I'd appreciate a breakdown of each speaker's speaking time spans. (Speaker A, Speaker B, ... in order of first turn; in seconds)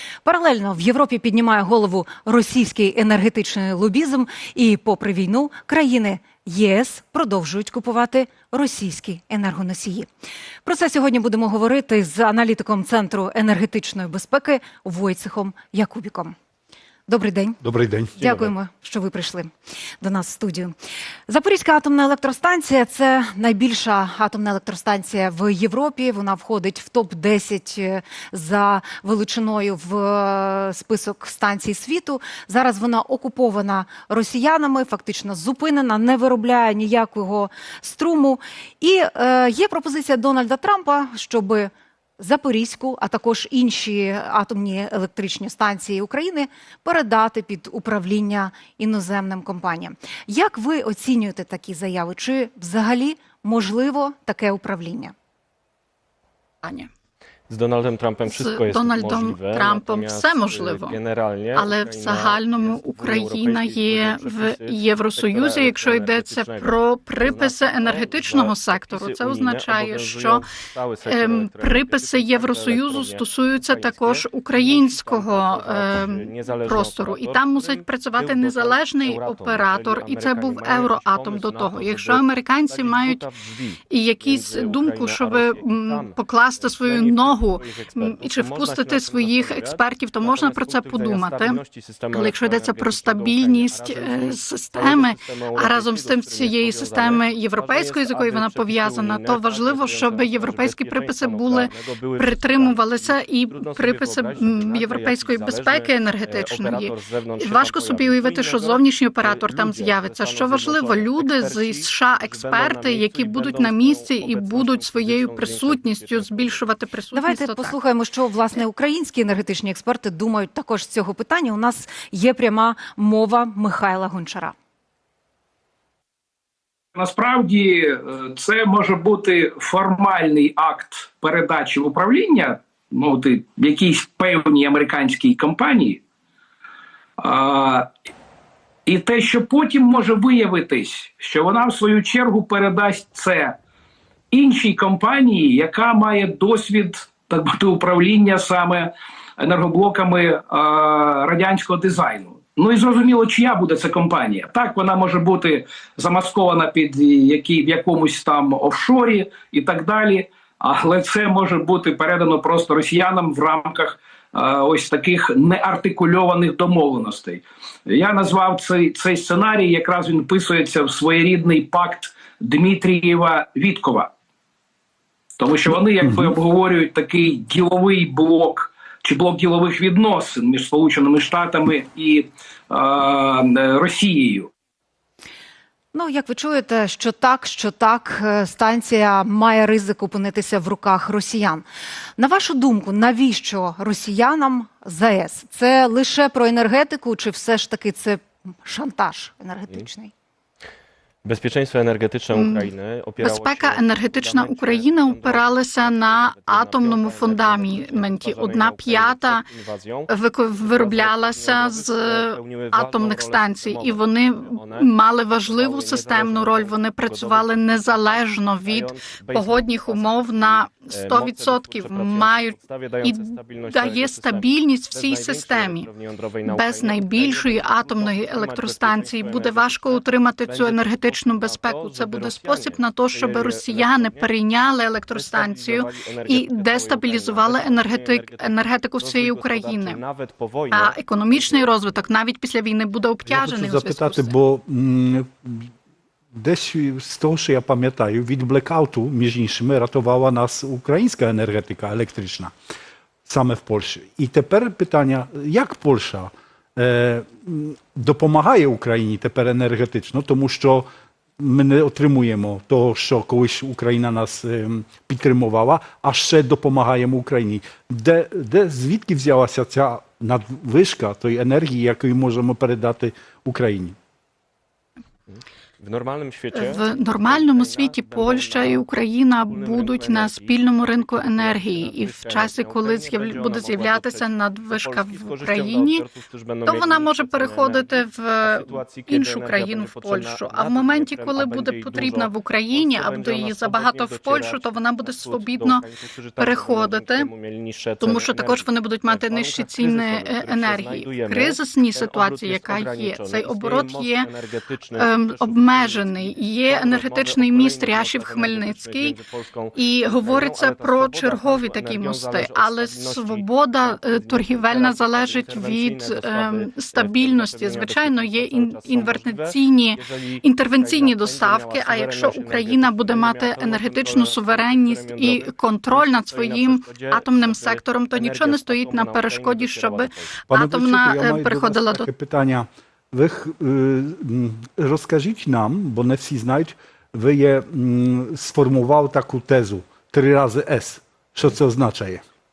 Speaker A: 0.2-10.1, 10.6-16.3, 17.1-17.6, 18.2-20.7, 21.3-55.1, 117.1-124.5, 185.9-191.6, 192.2-200.1
Speaker B: 17.6-18.3, 176.0-176.3, 243.2-245.7, 246.3-252.5, 253.2-260.9, 261.4-273.9, 330.5-342.2
Speaker C: 56.6-56.9, 58.2-61.0, 61.5-70.4, 71.0-83.2, 83.9-117.7, 202.3-209.4, 210.1-225.9, 226.4-240.0, 240.7-244.3, 276.5-286.1, 286.6-295.8, 296.4-297.3, 298.0-304.3, 304.9-309.2, 309.7-332.1
Speaker D: 57.5-66.7, 67.2-73.2, 73.7-83.4, 84.2-86.1, 86.8-116.6, 201.2-214.0, 214.5-214.9, 215.5-217.4, 218.7-234.2, 235.1-238.4, 239.0-241.6, 275.8-278.8, 279.5-280.5, 281.1-284.2, 284.7-287.9, 288.4-330.3
Speaker E: 126.9-136.0, 137.2-137.9, 138.8-143.6, 144.3-174.1, 175.4-184.5